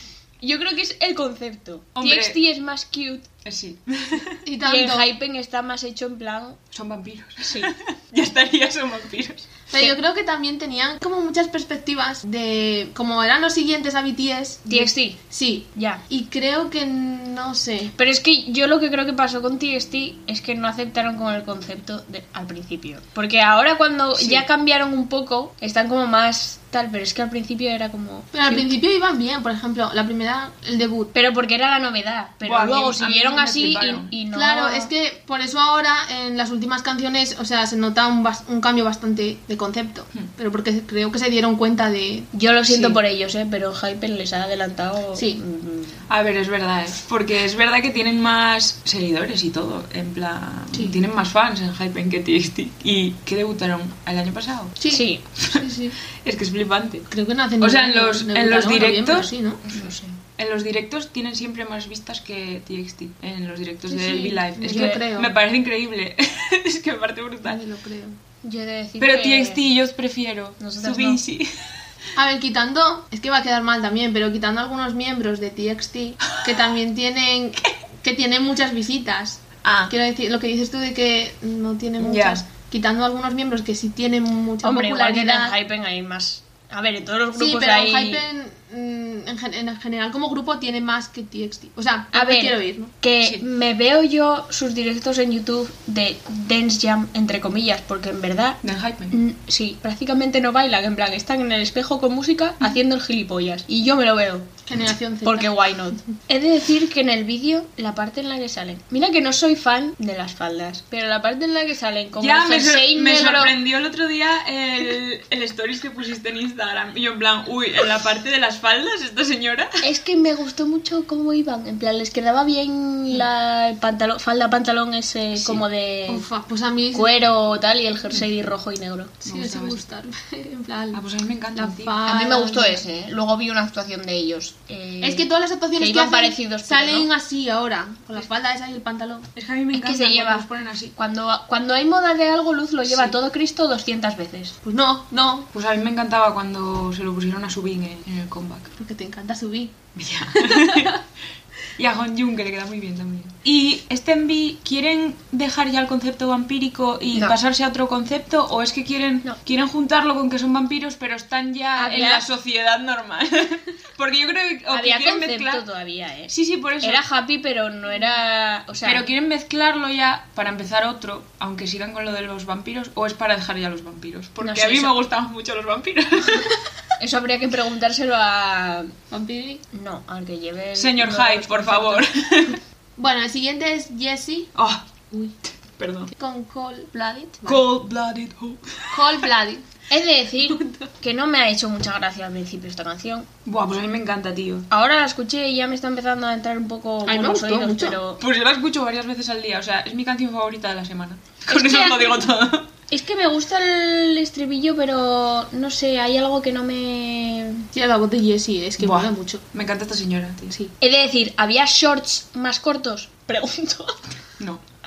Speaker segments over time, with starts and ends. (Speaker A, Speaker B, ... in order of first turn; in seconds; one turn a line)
Speaker A: 0.4-3.3
Speaker B: 1.9-2.4
Speaker B: 3.4-4.4
Speaker C: 4.5-5.1
Speaker A: 4.6-6.6
Speaker B: 6.7-9.5
Speaker A: 7.4-7.7
Speaker C: 9.7-17.9
Speaker A: 14.7-15.2
Speaker A: 15.8-16.0
Speaker A: 18.0-28.7
Speaker B: 24.1-24.4
Speaker C: 28.3-31.1
Speaker A: 31.1-34.9
Speaker B: 32.4-34.1
Speaker C: 34.3-42.9
Speaker A: 42.3-46.0
Speaker C: 45.2-45.4
Speaker B: 46.1-54.8
Speaker C: 54.8-56.0
Speaker A: 54.9-55.2
Speaker B: 55.4-57.1
Speaker C: 57.1-59.7
Speaker B: 57.6-67.6
Speaker A: 59.7-60.0
Speaker C: 63.9-65.3
Speaker A: 64.6-65.0
Speaker C: 67.5-68.2
Speaker A: 68.4-69.6
Speaker B: 69.0-71.7
Speaker A: 70.6-71.2
Speaker C: 72.2-85.5
Speaker B: 79.6-79.9
Speaker B: 82.0-82.4
Speaker A: 84.6-88.2
Speaker C: 87.3-92.9
Speaker A: 92.1-98.6
Speaker B: 98.6-99.2
Speaker A: 99.1-104.5
Speaker C: 104.7-105.5
Speaker A: 105.2-113.5
Speaker B: 112.2-119.8
Speaker A: 119.8-126.3
Speaker C: 126.1-127.2
Speaker A: 126.9-129.1
Speaker C: 129.2-132.8
Speaker B: 129.2-129.8
Speaker B: 130.9-132.0
Speaker A: 132.1-135.3
Speaker C: 135.0-139.3
Speaker A: 135.8-137.1
Speaker B: 139.4-140.9
Speaker A: 139.7-144.6
Speaker C: 144.7-145.5
Speaker B: 145.5-148.7
Speaker C: 148.8-149.8
Speaker B: 150.0-151.0
Speaker C: 150.3-151.0
Speaker B: 151.8-165.6
Speaker A: 161.8-162.2
Speaker A: 164.7-169.1
Speaker B: 166.3-167.0
Speaker B: 168.8-176.6
Speaker A: 174.4-174.9
Speaker A: 177.0-178.9
Speaker C: 179.1-179.6
Speaker A: 179.7-182.1
Speaker B: 180.8-182.6
Speaker C: 183.0-184.5
Speaker B: 184.6-185.0
Speaker B: 185.8-186.1
Speaker C: 186.1-187.6
Speaker B: 187.4-189.3
Speaker C: 188.9-189.7
Speaker A: 189.9-193.3
Speaker C: 190.5-190.9
Speaker B: 193.4-194.7
Speaker A: 194.7-198.2
Speaker C: 197.1-198.0
Speaker B: 198.2-202.7
Speaker A: 201.5-202.3
Speaker A: 202.9-207.7
Speaker C: 207.8-209.4
Speaker B: 208.8-210.6
Speaker A: 210.8-214.0